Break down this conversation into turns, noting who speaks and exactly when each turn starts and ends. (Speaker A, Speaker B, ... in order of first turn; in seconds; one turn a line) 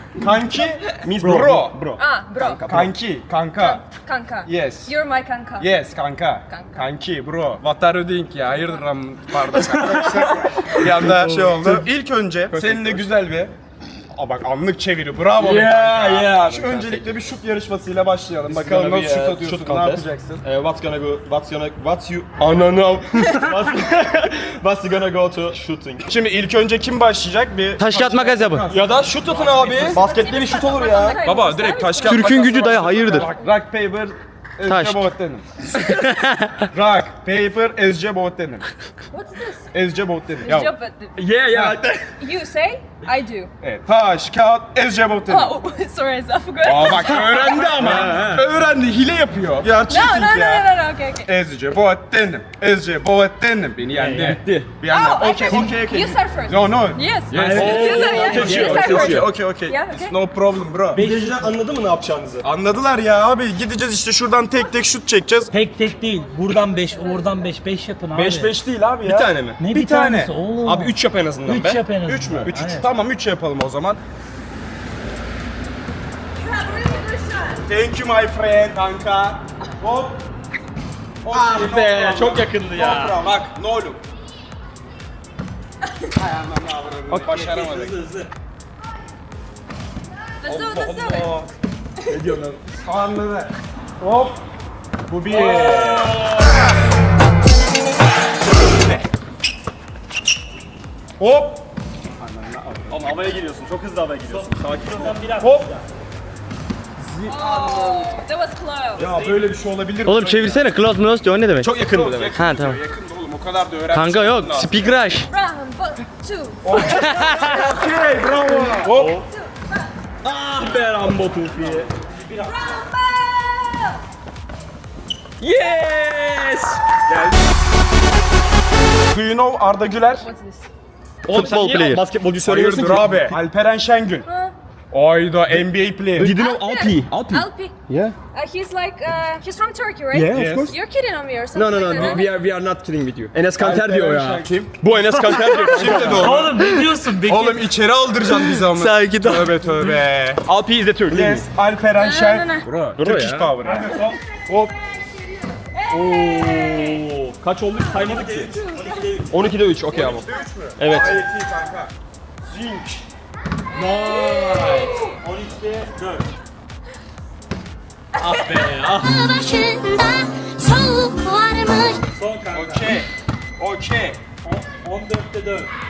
Speaker A: 0.2-1.9
Speaker B: 1.0-3.0
Speaker C: 2.0-2.6
Speaker A: 2.7-3.8
Speaker C: 3.6-5.7
Speaker A: 4.5-4.9
Speaker A: 5.6-13.5
Speaker C: 6.5-6.8
Speaker B: 9.5-11.9
Speaker B: 12.5-13.1
Speaker A: 14.1-20.4
Speaker B: 15.4-17.2
Speaker B: 18.4-26.1
Speaker A: 26.1-30.1
Speaker D: 27.8-28.7
Speaker B: 28.7-31.2
Speaker C: 29.9-33.3
Speaker A: 31.2-35.7
Speaker D: 32.0-33.3
Speaker D: 34.6-35.1
Speaker D: 35.9-36.5
Speaker A: 36.7-38.7
Speaker C: 39.1-39.7
Speaker A: 39.7-40.7
Speaker C: 40.4-41.2
Speaker B: 41.2-42.1
Speaker C: 42.2-43.5
Speaker A: 43.6-45.5
Speaker C: 45.3-47.7
Speaker A: 46.6-50.7
Speaker B: 47.2-48.5
Speaker C: 49.9-51.3
Speaker A: 51.2-61.0
Speaker E: 54.0-54.4
Speaker B: 54.2-54.7
Speaker C: 54.9-60.2
Speaker E: 57.3-58.5
Speaker B: 57.4-59.3
Speaker B: 61.0-62.5
Speaker E: 61.0-61.5
Speaker A: 62.4-65.5
Speaker E: 65.5-68.5
Speaker A: 68.1-70.3
Speaker B: 69.0-69.6
Speaker E: 69.6-71.0
Speaker B: 70.6-71.8
Speaker E: 71.5-72.9
Speaker A: 72.0-74.0
Speaker C: 76.3-77.7
Speaker A: 77.7-80.2
Speaker A: 81.2-84.0
Speaker B: 81.3-83.4
Speaker A: 86.2-88.0
Speaker B: 87.1-87.8
Speaker E: 87.7-88.3
Speaker C: 90.4-91.4
Speaker A: 90.5-91.5
Speaker B: 92.1-92.6
Speaker A: 92.8-94.4
Speaker A: 95.1-96.1
Speaker B: 95.2-96.6
Speaker A: 101.2-101.7
Speaker A: 102.2-103.0
Speaker B: 102.9-105.2
Speaker E: 104.3-105.8
Speaker A: 105.4-105.7
Speaker A: 107.0-108.1
Speaker C: 107.3-109.1
Speaker B: 107.4-107.9
Speaker A: 109.0-110.8
Speaker D: 110.0-111.8
Speaker B: 111.6-112.4
Speaker A: 111.8-115.0
Speaker D: 112.3-112.8
Speaker D: 113.9-115.3
Speaker C: 115.3-116.8
Speaker A: 116.6-119.1
Speaker D: 116.9-117.5
Speaker B: 117.0-119.2
Speaker C: 119.0-119.9
Speaker B: 120.2-121.9
Speaker C: 122.4-124.0
Speaker B: 125.4-126.8
Speaker A: 127.1-127.4
Speaker A: 129.1-130.3
Speaker C: 130.2-130.7
Speaker B: 131.2-133.4
Speaker D: 131.3-132.0
Speaker A: 132.4-134.3
Speaker C: 134.2-134.5
Speaker A: 134.9-136.4
Speaker B: 135.5-138.2
Speaker C: 136.2-137.7
Speaker C: 138.3-142.3
Speaker B: 140.1-140.8
Speaker A: 140.3-140.8
Speaker B: 141.5-146.5
Speaker A: 143.6-144.8
Speaker A: 145.4-146.6
Speaker E: 146.1-147.7
Speaker A: 147.2-150.4
Speaker D: 148.7-149.9
Speaker B: 150.4-151.5
Speaker A: 151.1-154.0
Speaker C: 152.0-152.7
Speaker B: 153.0-153.6
Speaker C: 154.9-157.1
Speaker B: 155.9-158.6
Speaker C: 157.8-159.2
Speaker E: 158.1-159.3
Speaker B: 159.3-160.3
Speaker A: 159.9-161.9
Speaker B: 160.8-161.2
Speaker B: 162.5-163.0
Speaker B: 163.7-164.9
Speaker C: 163.7-165.2
Speaker E: 165.2-166.3
Speaker C: 168.2-172.0
Speaker B: 168.3-169.2
Speaker E: 168.7-169.0
Speaker E: 172.1-173.0
Speaker A: 172.5-174.2
Speaker E: 174.4-175.7